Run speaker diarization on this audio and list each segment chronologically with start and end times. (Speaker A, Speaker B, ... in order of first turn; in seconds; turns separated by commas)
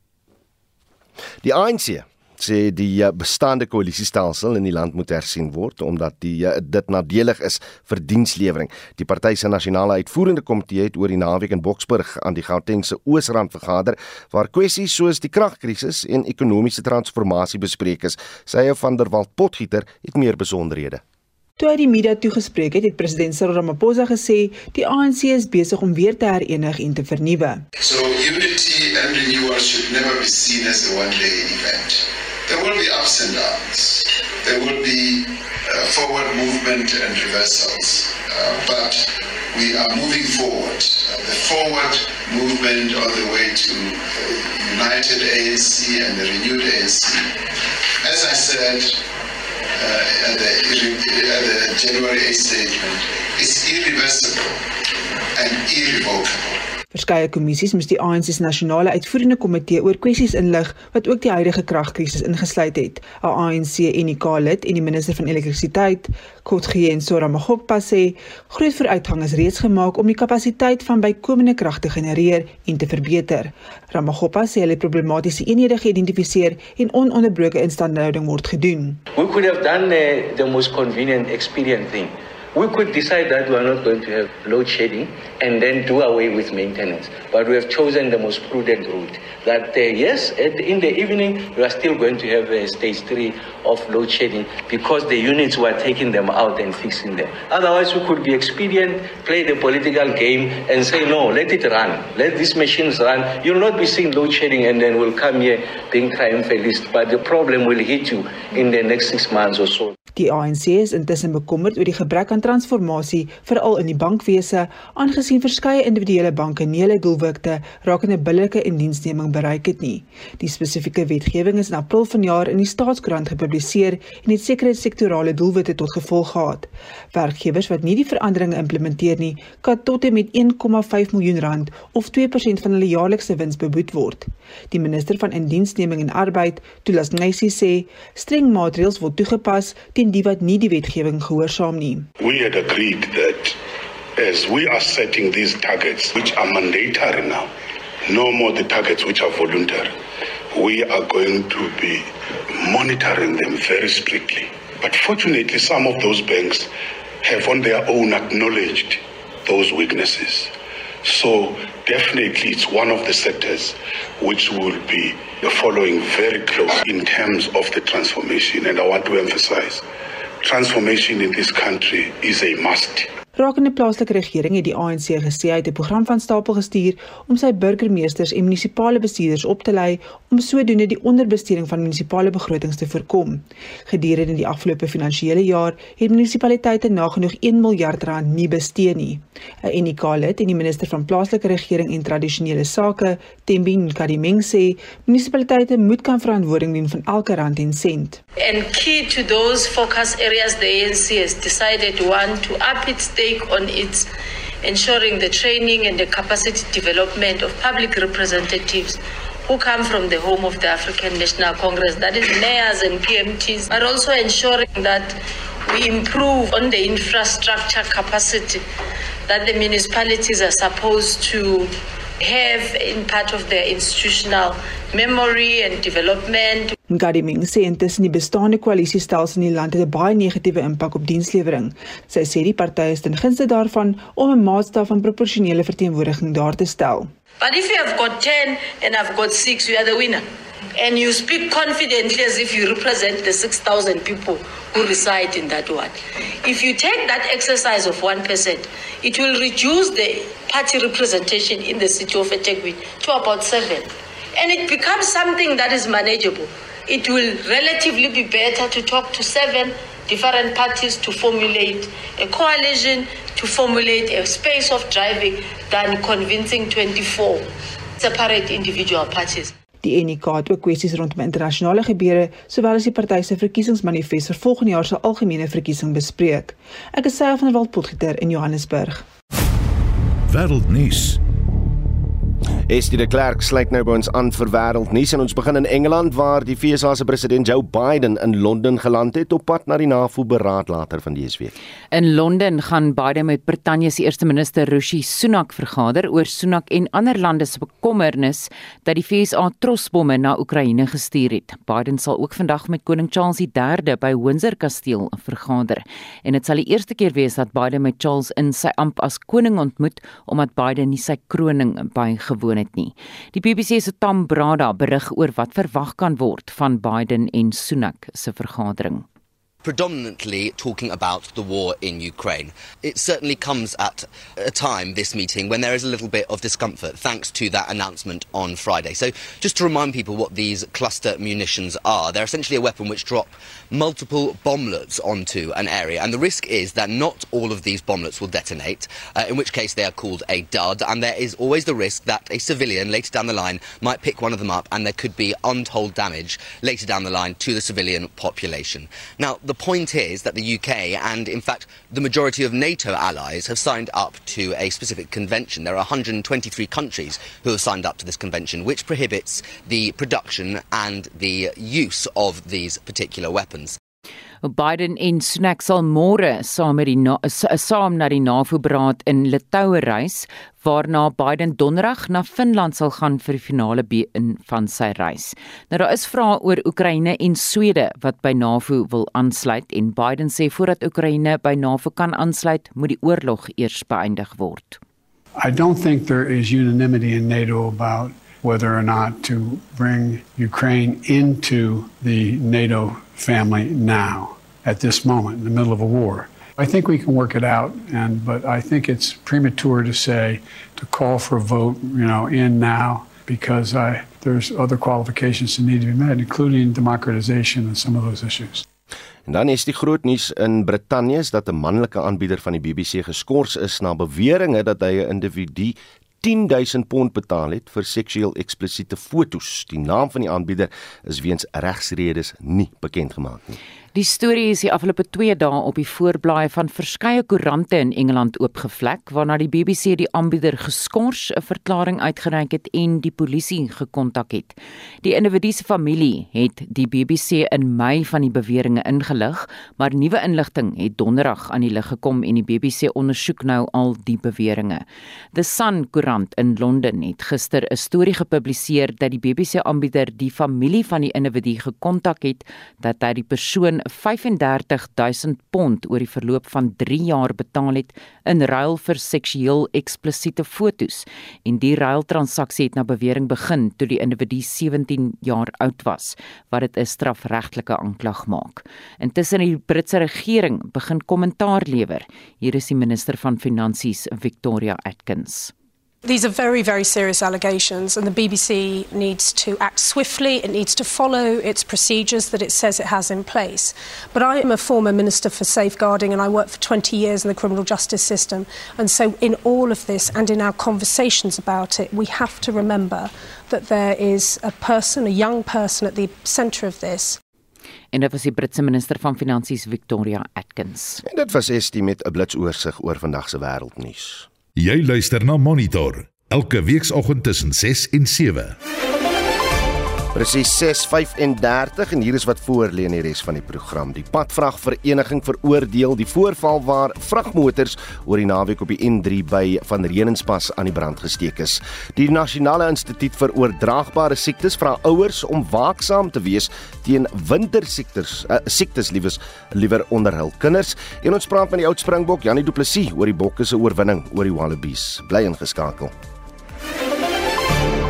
Speaker A: 1.4-21.0, Speaker B: 21.6-27.6, Speaker C: 27.8-47.4, Speaker C: 48.0-49.0, Speaker C: 49.8-54.6, Speaker C: 55.3-56.6, Speaker B: 56.9-79.0, Speaker D: 79.1-109.9, Speaker B: 110.2-142.1, Speaker E: 142.2-143.6, Speaker E: 144.2-147.5, Speaker E: 148.1-149.9, Speaker E: 150.5-156.7, Speaker E: 157.2-169.8, Speaker E: 170.4-173.1, Speaker B: 173.3-198.2, Speaker F: 198.4-204.1, Speaker F: 204.6-218.6, Speaker F: 219.3-226.7, Speaker B: 226.9-237.1, Speaker F: 237.4-240.2, Speaker F: 240.8-269.5, Speaker B: 269.8-279.0, Speaker G: 280.3-281.2, Speaker A: 282.7-291.5, Speaker H: 291.9-319.0, Speaker I: 319.6-363.8, Speaker H: 364.4-384.8, Speaker J: 385.4-408.6, Speaker A: 409.2-423.6, Speaker H: 423.9-444.8, Speaker H: 445.3-475.5, Speaker K: 476.0-497.2, Speaker H: 497.9-501.0, Speaker A: 501.0-504.3, Speaker G: 504.6-508.6, Speaker A: 510.1-535.9